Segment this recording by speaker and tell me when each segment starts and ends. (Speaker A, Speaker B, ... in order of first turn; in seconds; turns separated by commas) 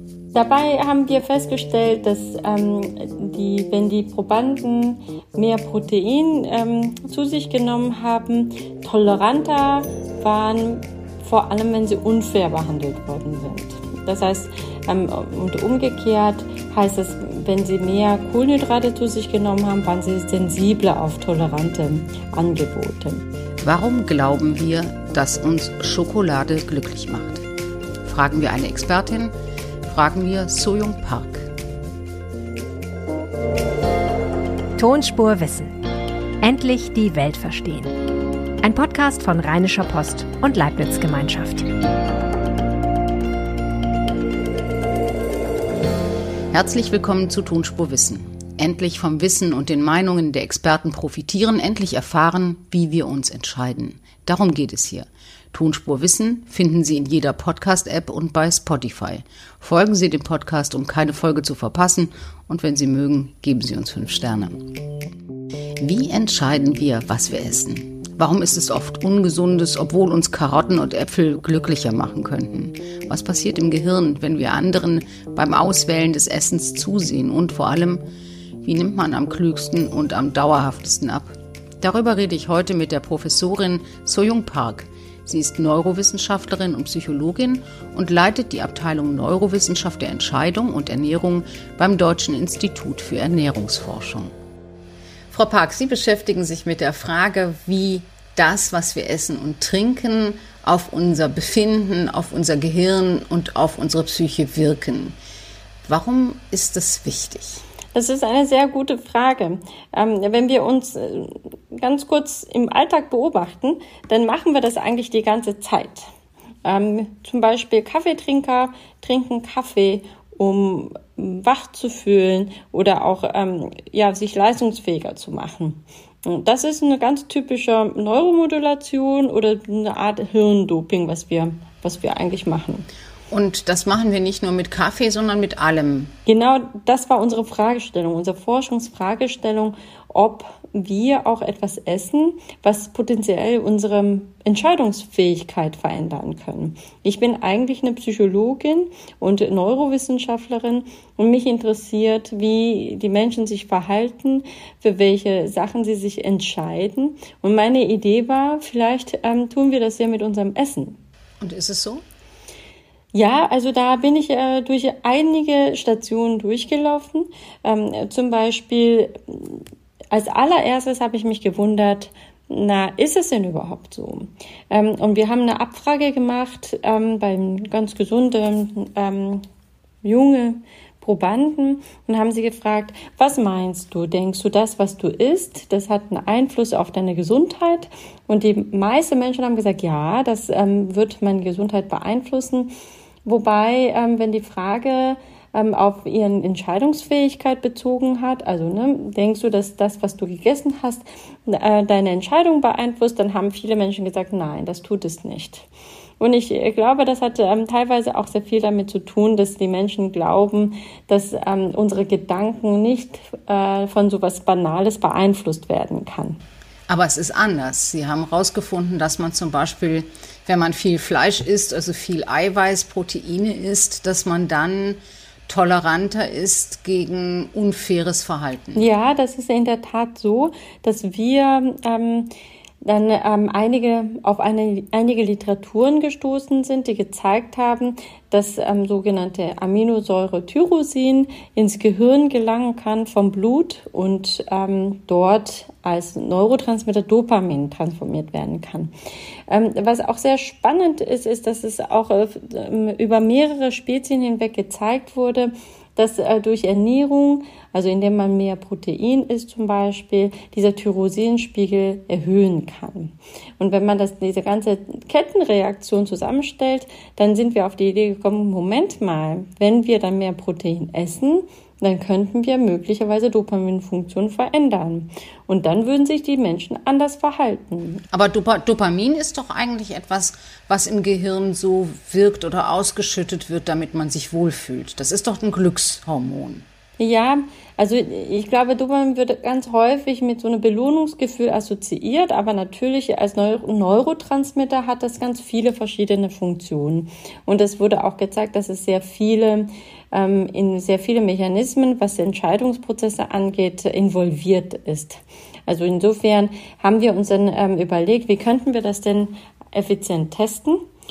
Speaker A: 0.3-23.2, Speaker B: 23.6-27.5, Speaker B: 28.0-29.3, Speaker B: 29.9-31.5, Speaker C: 34.8-35.8, Speaker C: 36.4-38.0, Speaker C: 38.6-41.7, Speaker B: 46.5-64.7, Speaker B: 65.8-78.0, Speaker B: 78.6-94.3, Speaker B: 95.3-105.2, Speaker B: 105.8-107.6, Speaker A: 107.9-116.1, Speaker A: 116.6-132.8, Speaker B: 133.3-136.1, Speaker A: 136.3-161.0, Speaker B: 161.4-162.0, Speaker A: 163.1-179.4, Speaker A: 180.0-192.7, Speaker A: 193.2-205.7, Speaker A: 206.2-216.4, Speaker B: 216.9-228.9, Speaker A: 228.7-232.3, Speaker A: 232.8-248.9, Speaker A: 249.5-278.0, Speaker B: 278.1-286.6, Speaker A: 287.0-310.8